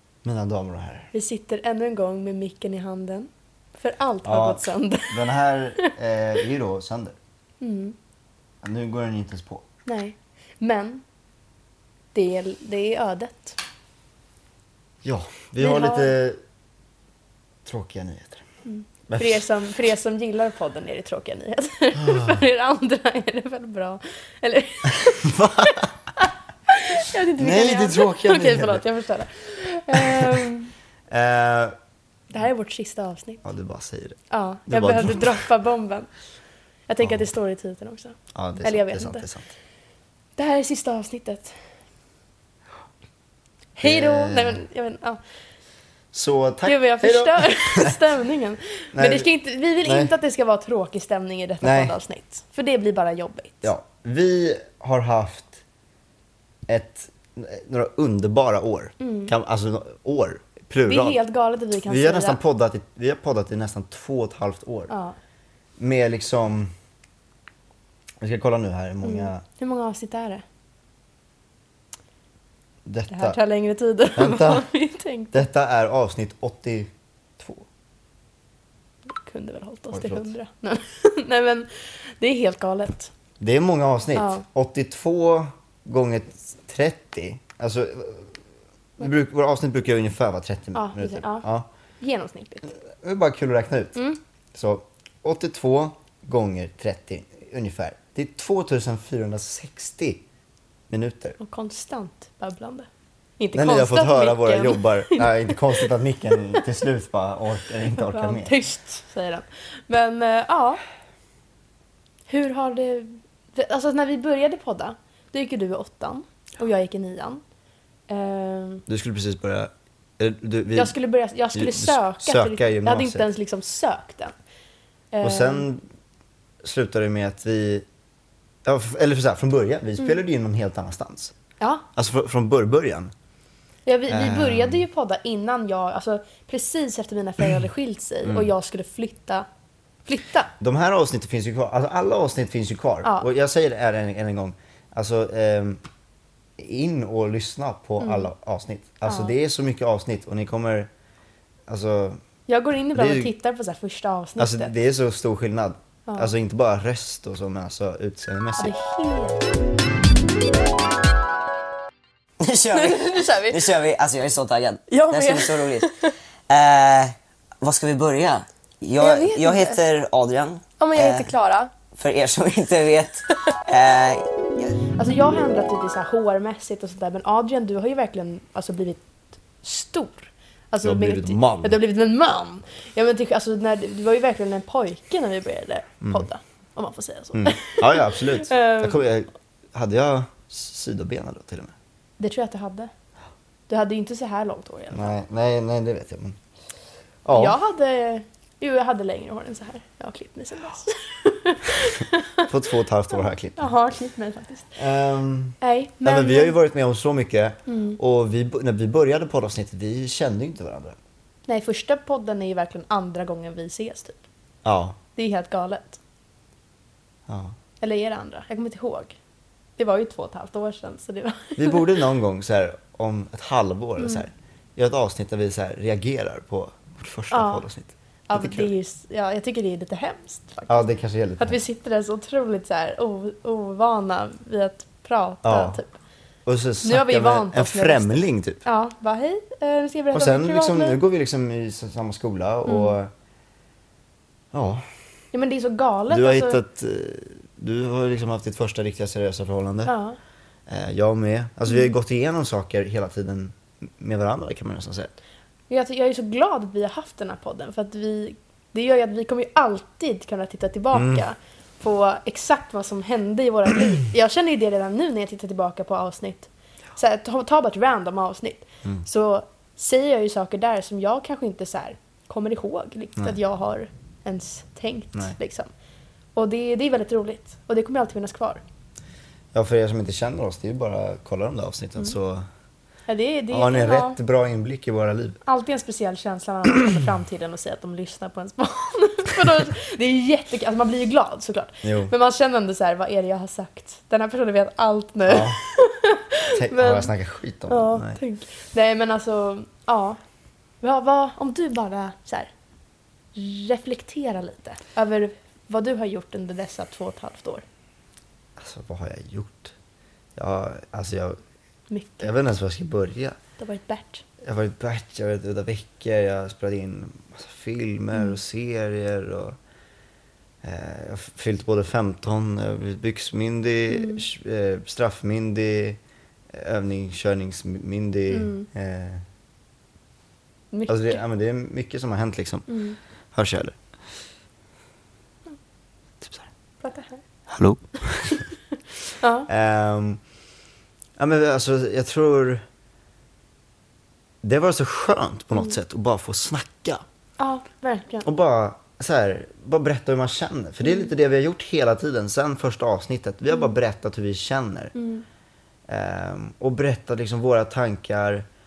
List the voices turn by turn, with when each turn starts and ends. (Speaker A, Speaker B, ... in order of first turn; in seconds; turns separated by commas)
Speaker A: 0.2-1.1, Speaker B: 1.1-5.2, Speaker A: 4.2-7.2, Speaker B: 7.6-8.0, Speaker A: 8.6-9.7, Speaker B: 9.8-11.0, Speaker B: 12.1-13.6, Speaker A: 15.0-16.4, Speaker B: 15.6-16.1, Speaker A: 17.6-18.4, Speaker B: 18.6-30.7, Speaker A: 19.1-19.5, Speaker A: 22.0-22.4, Speaker A: 24.9-25.9, Speaker A: 27.4-28.8, Speaker A: 29.9-30.4, Speaker A: 31.1-31.7, Speaker B: 32.3-33.4, Speaker A: 33.4-35.5, Speaker B: 34.3-36.1, Speaker B: 36.9-39.2, Speaker A: 38.3-39.5, Speaker B: 40.4-41.5, Speaker B: 43.8-45.2, Speaker A: 43.8-44.6, Speaker A: 46.1-48.0, Speaker B: 46.6-53.7, Speaker A: 48.9-49.3, Speaker A: 49.8-50.1, Speaker A: 51.6-51.9, Speaker A: 53.6-55.6, Speaker A: 56.7-61.2, Speaker B: 59.0-59.3, Speaker B: 60.9-62.4, Speaker A: 61.9-64.9, Speaker B: 64.9-65.1, Speaker A: 65.8-66.7, Speaker A: 68.2-69.4, Speaker B: 69.0-70.4, Speaker A: 72.8-73.4, Speaker B: 73.1-75.4, Speaker A: 74.2-74.7, Speaker A: 75.3-77.7, Speaker B: 79.1-83.1, Speaker A: 79.9-80.3, Speaker A: 83.4-88.3, Speaker B: 84.1-84.4, Speaker A: 89.0-91.7, Speaker B: 90.7-91.5, Speaker B: 92.0-92.7, Speaker A: 92.9-94.0, Speaker A: 94.5-100.2, Speaker A: 100.9-101.4, Speaker B: 101.4-102.9, Speaker B: 103.4-105.9, Speaker A: 103.5-108.5, Speaker B: 107.9-110.8, Speaker B: 112.3-117.4, Speaker B: 118.1-118.8, Speaker A: 118.9-120.9, Speaker B: 120.7-124.3, Speaker A: 121.5-123.2, Speaker B: 125.1-125.6, Speaker A: 125.2-125.8, Speaker A: 126.6-127.8, Speaker A: 128.6-131.3, Speaker B: 131.6-131.8, Speaker A: 131.9-133.1, Speaker B: 133.8-139.5, Speaker A: 134.1-134.8, Speaker B: 140.1-140.5, Speaker A: 140.6-145.8, Speaker A: 146.6-150.9, Speaker B: 148.0-148.3, Speaker B: 149.0-149.3, Speaker A: 151.7-152.2, Speaker B: 152.5-154.7, Speaker A: 152.9-153.3, Speaker A: 154.4-158.7, Speaker B: 156.1-156.3, Speaker B: 158.6-159.4, Speaker C: 162.4-165.9, Speaker B: 162.7-163.7, Speaker B: 164.9-166.1, Speaker C: 166.5-171.2, Speaker B: 169.0-169.8, Speaker A: 169.0-169.8, Speaker B: 170.8-171.7, Speaker C: 171.9-174.8, Speaker B: 175.0-179.0, Speaker B: 179.6-189.0, Speaker A: 180.8-181.8, Speaker A: 187.3-191.7, Speaker B: 192.2-192.9, Speaker B: 193.7-195.1, Speaker A: 194.9-196.4, Speaker A: 197.2-197.6, Speaker B: 197.3-202.5, Speaker A: 202.4-203.7, Speaker B: 203.6-204.8, Speaker A: 204.8-210.9, Speaker B: 205.6-206.5, Speaker B: 207.7-208.0, Speaker B: 211.5-214.2, Speaker A: 214.6-215.0, Speaker B: 215.2-216.0, Speaker A: 217.3-217.6, Speaker B: 217.8-219.2, Speaker B: 219.8-222.0, Speaker A: 221.6-228.7, Speaker B: 224.0-224.2, Speaker B: 227.3-227.6, Speaker B: 228.3-235.9, Speaker A: 230.7-231.6, Speaker A: 235.4-235.8, Speaker A: 236.4-238.6, Speaker B: 236.8-241.0, Speaker A: 240.1-243.1, Speaker B: 242.6-242.9, Speaker A: 244.5-244.8, Speaker B: 245.3-246.6, Speaker A: 246.1-249.9, Speaker B: 249.8-250.2, Speaker A: 250.7-255.1, Speaker B: 255.7-275.7, Speaker A: 260.9-261.2, Speaker B: 276.4-278.6, Speaker A: 279.5-282.4, Speaker B: 283.1-284.2, Speaker A: 283.5-285.4, Speaker B: 285.4-297.1, Speaker A: 291.8-292.1, Speaker A: 295.3-295.6, Speaker A: 296.5-298.2, Speaker B: 297.7-300.2, Speaker B: 300.8-302.5, Speaker B: 303.3-307.6, Speaker A: 308.6-309.7, Speaker A: 310.4-311.4, Speaker B: 311.9-312.3, Speaker A: 312.2-313.3, Speaker B: 313.6-314.2, Speaker A: 314.4-319.6, Speaker A: 320.6-326.0, Speaker B: 323.9-324.2, Speaker A: 326.5-329.2, Speaker B: 328.3-328.7, Speaker B: 330.7-331.2, Speaker A: 330.9-332.7, Speaker B: 332.7-333.0, Speaker A: 333.3-333.8, Speaker A: 336.2-336.5, Speaker B: 336.8-337.2, Speaker A: 337.5-338.5, Speaker B: 339.2-339.5, Speaker A: 339.5-340.2, Speaker A: 341.2-342.6, Speaker A: 344.4-347.0, Speaker B: 347.4-348.3, Speaker A: 348.2-354.9, Speaker B: 354.9-355.2, Speaker A: 355.9-358.5